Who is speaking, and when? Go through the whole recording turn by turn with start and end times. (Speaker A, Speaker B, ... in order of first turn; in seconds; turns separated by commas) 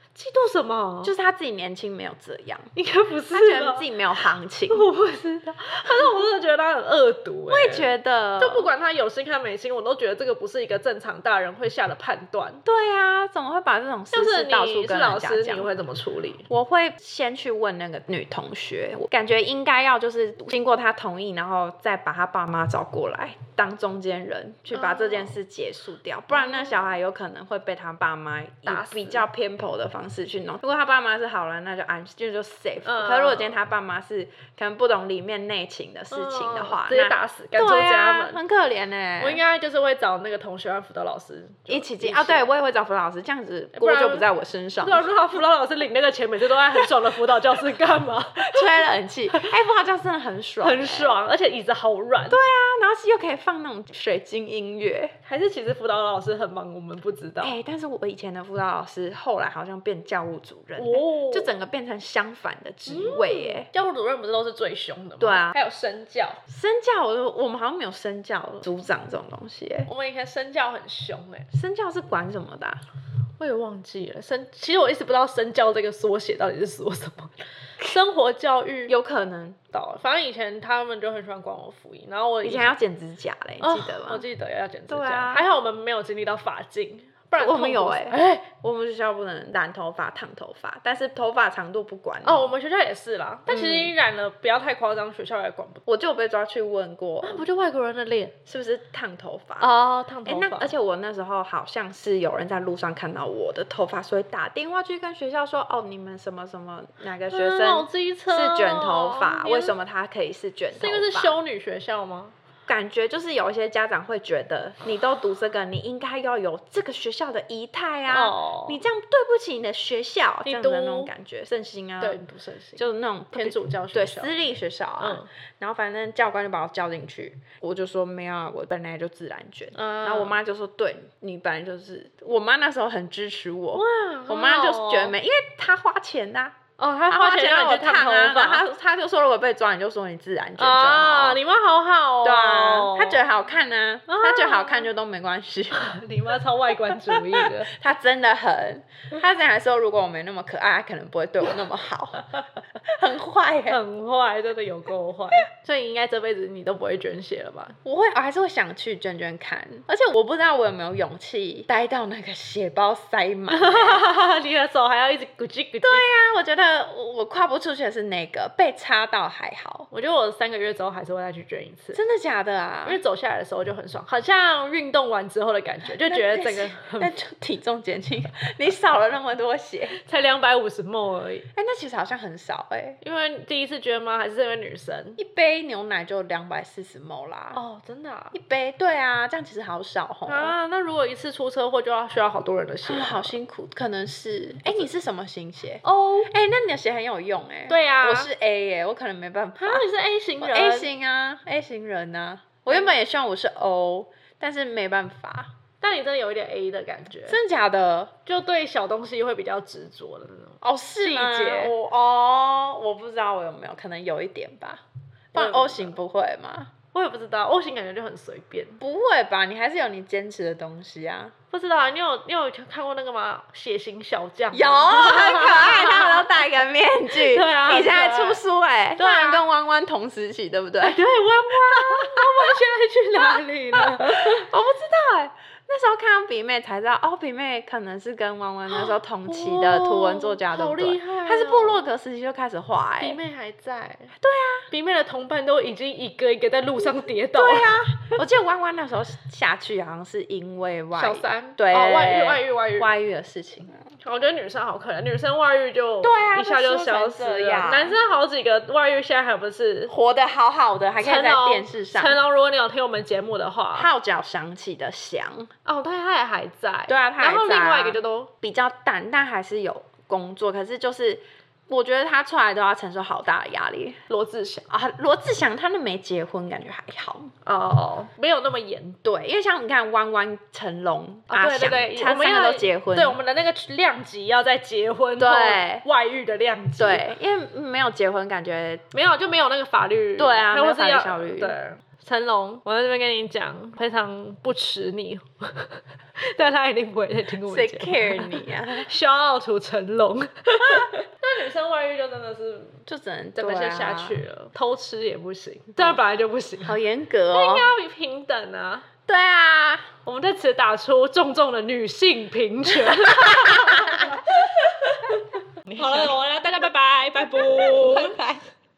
Speaker A: 0.1-1.1, Speaker B: 1.0-2.7, Speaker A: 2.7-3.9, Speaker B: 3.3-4.9, Speaker A: 4.7-12.6, Speaker B: 7.5-8.7, Speaker B: 12.6-15.7, Speaker A: 14.1-16.5, Speaker B: 16.5-39.4, Speaker A: 24.7-25.3, Speaker A: 26.3-26.9, Speaker A: 28.6-29.2, Speaker A: 32.8-33.6, Speaker A: 36.1-38.4, Speaker A: 39.2-42.5, Speaker B: 41.7-45.1, Speaker A: 43.8-44.3, Speaker A: 44.8-49.5, Speaker B: 48.4-51.2, Speaker A: 50.6-52.4, Speaker B: 52.3-55.1, Speaker A: 55.2-57.5, Speaker B: 57.4-63.7, Speaker A: 60.8-61.5, Speaker A: 62.9-66.4, Speaker B: 65.2-65.5, Speaker B: 66.5-69.9, Speaker A: 69.8-71.5, Speaker B: 71.5-72.8, Speaker A: 73.4-78.9, Speaker B: 78.9-79.6, Speaker A: 79.7-82.8, Speaker B: 82.4-84.2, Speaker A: 83.6-88.5, Speaker B: 84.9-85.4, Speaker B: 87.4-92.5, Speaker A: 92.2-95.8, Speaker B: 93.5-93.9, Speaker B: 95.8-97.4, Speaker A: 97.2-98.3, Speaker B: 98.5-99.7, Speaker A: 99.6-100.7, Speaker B: 100.2-111.3, Speaker A: 107.3-109.7, Speaker A: 110.7-112.3, Speaker B: 112.7-122.2, Speaker A: 118.1-118.8, Speaker A: 120.4-121.1, Speaker A: 122.0-124.4, Speaker B: 122.8-141.4, Speaker A: 125.0-125.3, Speaker A: 129.7-130.4, Speaker A: 133.7-135.1, Speaker A: 136.8-138.7, Speaker A: 140.6-143.2, Speaker B: 142.2-146.0, Speaker A: 144.1-144.9, Speaker A: 145.7-147.7, Speaker B: 146.9-152.3, Speaker B: 152.8-153.8, Speaker A: 153.7-157.8, Speaker B: 157.8-164.1, Speaker A: 163.5-166.1, Speaker B: 165.8-169.9, Speaker A: 169.9-172.0, Speaker B: 171.9-173.0, Speaker A: 172.8-177.1, Speaker B: 176.0-180.0, Speaker A: 179.9-181.4, Speaker B: 181.5-183.0, Speaker A: 183.0-185.2, Speaker B: 185.2-187.6, Speaker A: 187.5-188.3, Speaker B: 188.3-190.5, Speaker A: 190.3-193.3, Speaker B: 192.9-199.9, Speaker A: 195.8-196.3, Speaker A: 197.7-198.3, Speaker A: 199.6-200.9, Speaker B: 200.4-205.5, Speaker A: 205.8-207.4, Speaker B: 207.3-208.1, Speaker A: 208.2-211.7, Speaker B: 210.6-216.7, Speaker A: 215.3-215.9, Speaker A: 216.9-218.8, Speaker B: 218.8-221.3, Speaker A: 221.5-226.3, Speaker B: 224.5-232.6, Speaker A: 227.1-228.4, Speaker A: 228.9-229.4, Speaker A: 230.8-234.5, Speaker B: 233.7-243.2, Speaker A: 238.7-241.9, Speaker A: 243.0-244.1, Speaker B: 244.2-244.7, Speaker A: 244.7-247.8, Speaker B: 247.3-253.8, Speaker A: 250.9-252.9, Speaker A: 254.0-259.9, Speaker B: 256.0-258.0, Speaker B: 259.9-262.2, Speaker A: 261.0-263.9, Speaker B: 263.8-265.5, Speaker A: 265.6-268.3, Speaker B: 266.9-274.0, Speaker A: 274.1-274.7, Speaker B: 274.7-277.3, Speaker A: 277.4-279.0, Speaker B: 279.0-283.2, Speaker A: 281.3-287.1, Speaker B: 285.2-285.8, Speaker B: 286.8-288.8, Speaker A: 288.9-302.8, Speaker B: 290.2-291.5, Speaker B: 297.4-298.9, Speaker B: 302.9-304.2, Speaker A: 303.4-306.7, Speaker B: 306.6-307.7, Speaker A: 307.3-308.9, Speaker B: 309.1-309.9, Speaker A: 310.0-318.2, Speaker B: 312.8-315.1, Speaker B: 315.7-316.1, Speaker B: 317.3-318.4